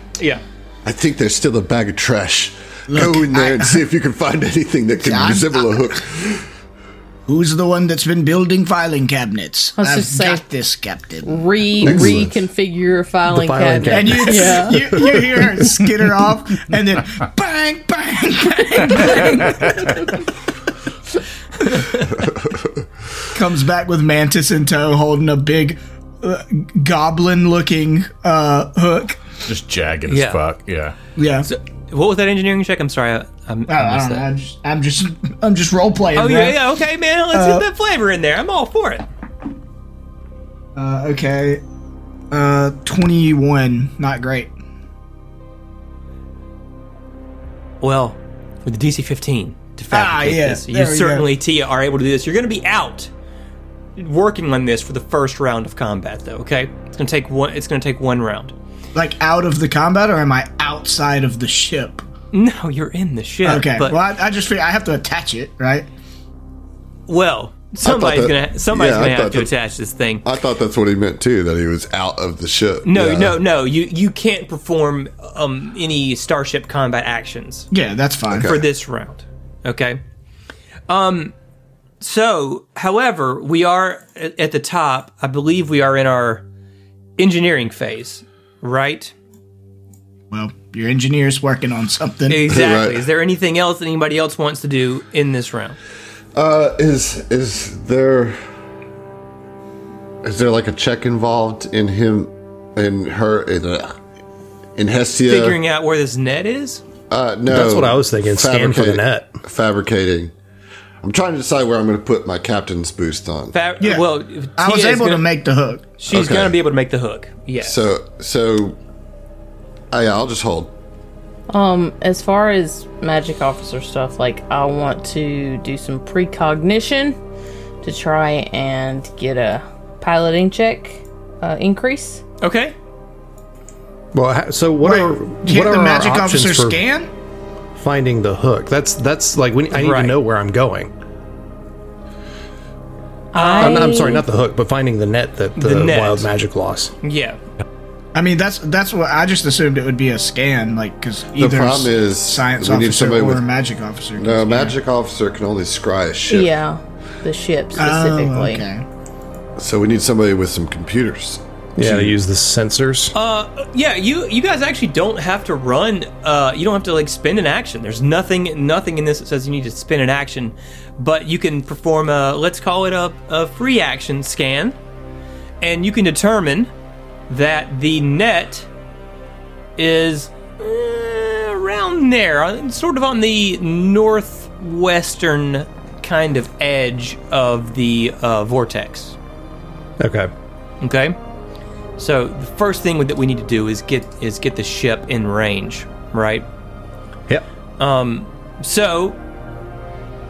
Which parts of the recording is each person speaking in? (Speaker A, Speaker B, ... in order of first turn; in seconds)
Speaker A: 0.8-6.5, 11.8-12.4, 67.8-69.5, 70.2-73.4, 78.3-78.6, 92.5-93.0, 96.3-98.4, 100.2-104.0, 104.8-105.6, 107.1-110.3, 111.0-113.6, 116.1-116.6, 117.6-118.8, 119.9-120.7, 151.4-153.4, 154.2-156.5, 159.6-162.2
Speaker B: 2.9-3.8, 5.0-5.9, 7.3-11.4, 13.9-20.1, 23.3-29.4, 31.2-31.5, 33.7-36.6, 37.3-37.6, 40.8-41.6, 42.3-44.5, 49.9-51.3, 59.0-62.0, 63.5-65.9, 77.7-78.5, 90.3-92.4, 114.6-115.9, 134.8-137.1, 148.1-154.8, 157.8-158.8
Speaker C: 9.8-10.4, 11.2-15.1, 121.5-127.2, 127.8-132.2, 143.3-144.2, 156.3-158.6
Speaker D: 13.3-14.9, 107.5-109.4, 134.1-136.8, 137.8-140.9, 143.5-146.9, 161.8-163.1, 190.0-190.3
Speaker E: 19.2-19.8, 29.5-31.0
Speaker F: 30.1-30.4, 31.4-34.3, 36.2-39.0, 47.8-53.1, 54.0-58.5, 62.3-64.0, 67.1-70.3, 72.8-77.7, 78.3-80.0, 80.9-81.3, 82.0-86.4, 87.2-89.1, 92.3-95.8, 105.3-106.8, 113.5-115.3, 116.0-117.8, 132.4-132.7, 139.7-140.2, 143.3-143.9, 145.6-146.3, 147.0-147.4, 163.1-174.8, 175.6-176.7, 177.3-178.7, 179.8-189.2, 190.8-191.2, 192.0-196.4, 197.8-199.2